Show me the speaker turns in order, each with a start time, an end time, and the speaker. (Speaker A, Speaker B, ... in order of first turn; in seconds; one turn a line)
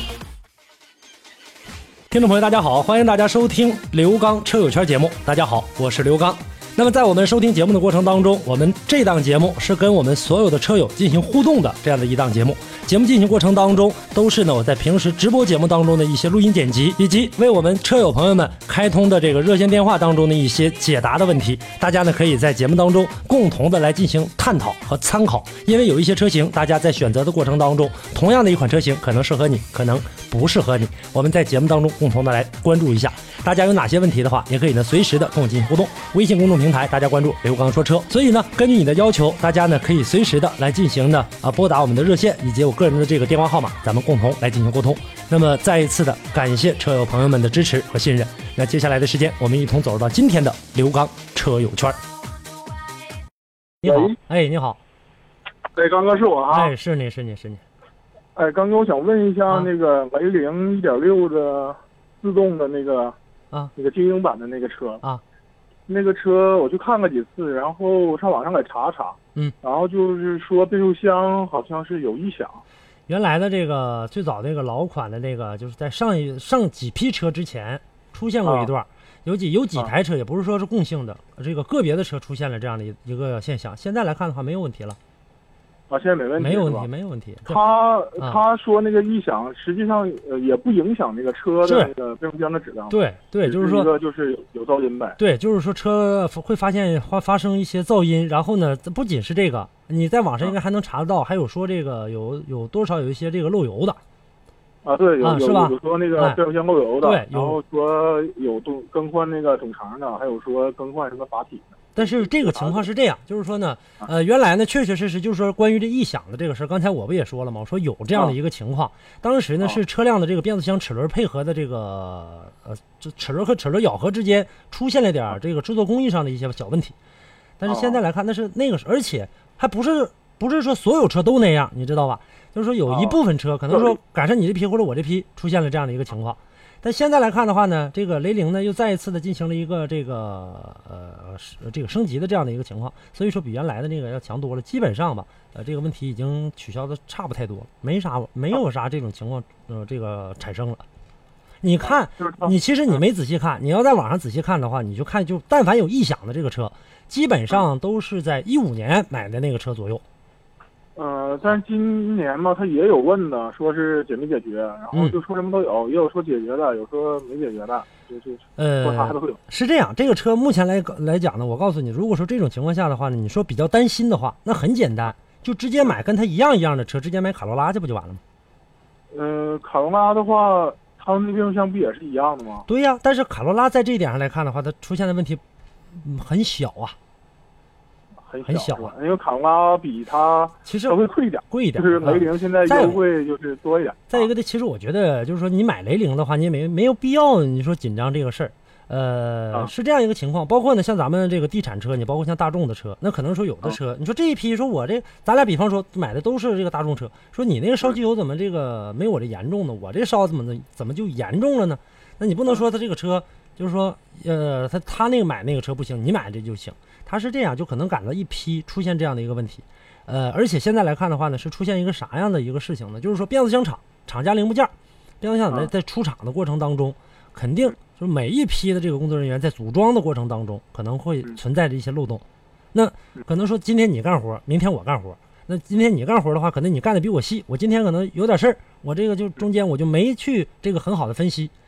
Speaker A: 2.1-52.0
Speaker A: 53.8-54.8
Speaker B: 53.8-54.1
Speaker B: 55.7-56.7
Speaker A: 56.5-57.6
Speaker B: 58.4-63.1
Speaker B: 63.8-65.0
Speaker B: 65.9-72.6
Speaker A: 73.1-85.0
Speaker B: 78.4-78.7
Speaker B: 85.9-86.9
Speaker A: 86.4-87.6
Speaker B: 87.5-95.2
Speaker A: 91.6-91.9
Speaker A: 92.9-93.9
Speaker A: 95.2-104.0
Speaker B: 104.8-112.8
Speaker A: 105.2-106.4
Speaker A: 107.0-107.6
Speaker A: 112.0-127.0
Speaker A: 127.6-150.8
Speaker B: 127.7-128.0
Speaker B: 132.9-133.2
Speaker B: 133.7-133.9
Speaker A: 151.6-160.0
Speaker B: 151.8-152.5
Speaker B: 160.9-169.4
Speaker A: 168.6-178.2
Speaker B: 179.1-182.7
Speaker A: 182.7-185.4
Speaker A: 185.9-186.9
Speaker B: 188.2-194.3
Speaker A: 188.4-188.9
Speaker A: 190.7-193.0
Speaker A: 194.1-232.2
Speaker A: 232.7-241.5